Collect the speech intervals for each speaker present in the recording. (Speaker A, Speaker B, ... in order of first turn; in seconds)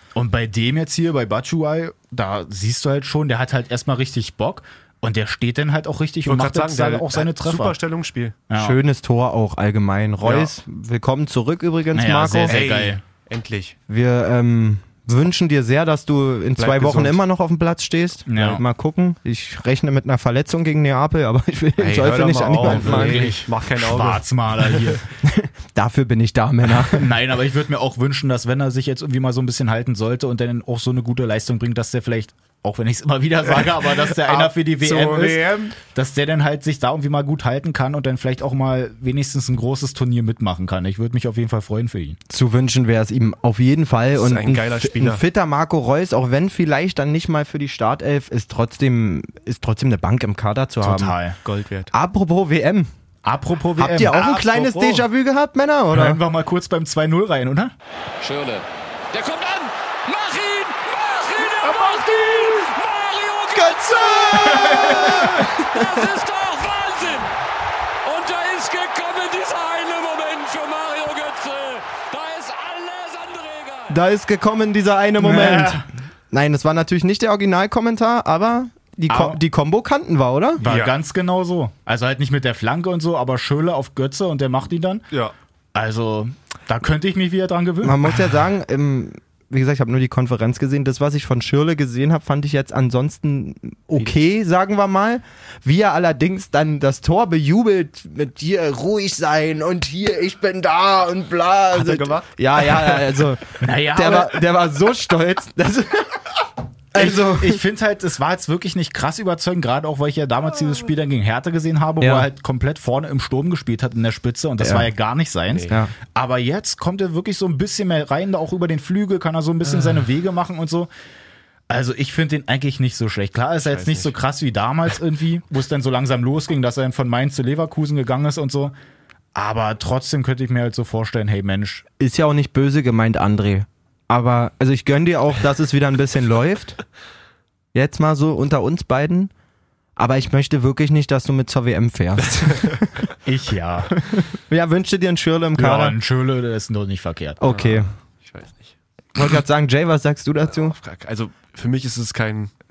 Speaker A: 0.1-7.8, 8.5-8.8, 11.9-13.0, 18.3-18.6, 22.6-25.0, 26.8-42.2, 50.8-51.4, 53.2-55.0, 55.9-57.7, 64.5-65.2, 75.2-75.9, 79.1-79.4, 80.6-85.0, 85.8-88.4, 103.6-104.5, 107.0-120.9, 121.7-128.7, 129.3-131.8, 143.2-143.9, 145.6-147.4
Speaker B: 6.2-8.4, 10.2-10.5, 12.5-13.8, 16.6-17.2, 21.8-25.0, 34.0-35.7, 44.2-45.2, 51.4-51.9, 80.6-80.9, 101.7-103.0, 123.6-124.1, 147.5-148.7, 150.5-152.5
Speaker C: 8.5-12.6, 13.9-23.3, 25.2-27.1, 42.3-51.2, 51.9-52.9, 53.8-56.2, 63.5-65.9, 73.9-80.6, 87.8-106.2, 106.9-107.6, 112.0-112.3, 114.6-114.9, 132.0-136.8, 137.7-139.3, 140.0-142.8, 144.0-146.0, 147.4-147.9, 149.2-150.8
Speaker D: 58.2-67.3, 68.0-73.9